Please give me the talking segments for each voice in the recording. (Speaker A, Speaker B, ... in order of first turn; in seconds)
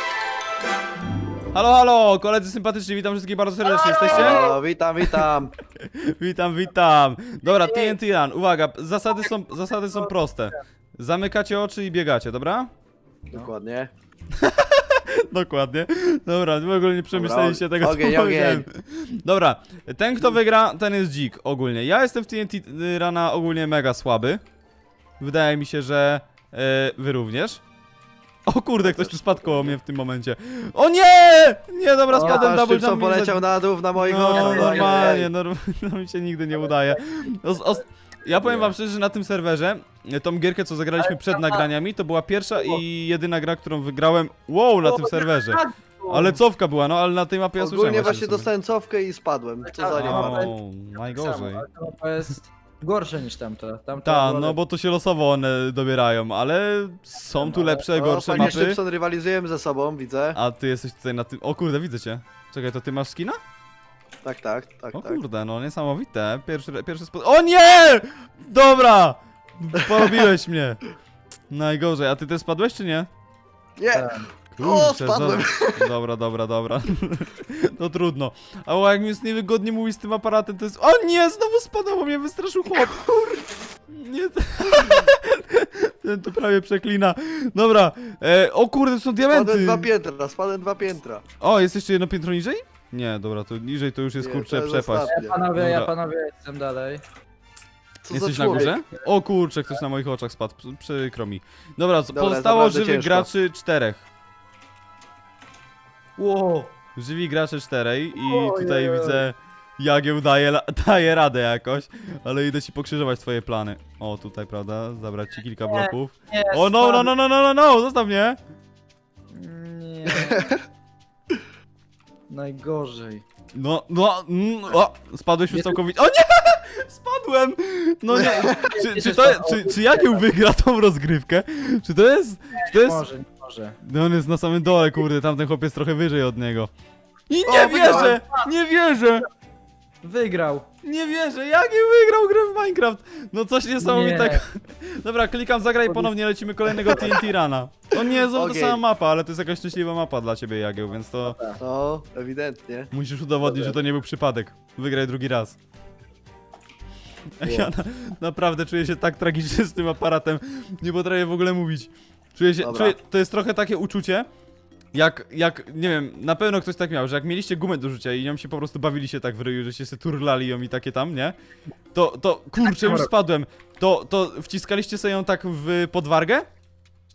Speaker A: 1.5-4.5, 5.8-12.7, 14.4-24.4, 25.2-27.6, 28.5-33.4, 34.0-48.5, 49.9-51.6, 54.0-58.8, 60.3-63.4, 64.9-70.8, 71.5-73.1, 74.5-89.9, 91.4-95.9, 98.1-104.1, 107.0-118.4, 123.5-133.1, 133.8-136.7, 137.3-139.2, 140.8-151.4, 152.9-155.6, 157.4-164.3, 164.9-171.3, 171.9-176.5
Speaker B: 3.6-4.6, 7.4-8.0, 32.1-32.5, 34.1-35.2, 41.0-41.6, 42.5-42.8, 44.8-46.4, 49.6-54.6, 57.3-57.8, 73.9-74.3, 95.0-97.0, 98.5-99.0, 106.2-106.7, 108.2-109.2, 115.7-117.1, 119.3-120.5, 122.3-123.2, 125.5-125.8, 128.1-130.2, 132.6-133.8, 137.6-138.5, 140.0-140.7, 143.8-144.4, 146.7-147.2, 151.2-151.6, 153.4-153.8, 157.4-157.7, 172.6-173.1
Speaker C: 4.1-5.5, 13.3-13.9, 17.1-18.6, 28.8-29.8, 32.1-35.3, 38.4-38.7, 47.6-50.5, 57.9-60.4, 64.2-65.2, 69.9-70.2, 73.8-75.9, 89.3-91.2, 94.2-95.4, 98.0-98.7, 102.1-103.3, 120.1-120.6, 137.5-138.2, 148.3-148.8, 151.6-152.9, 162.6-162.9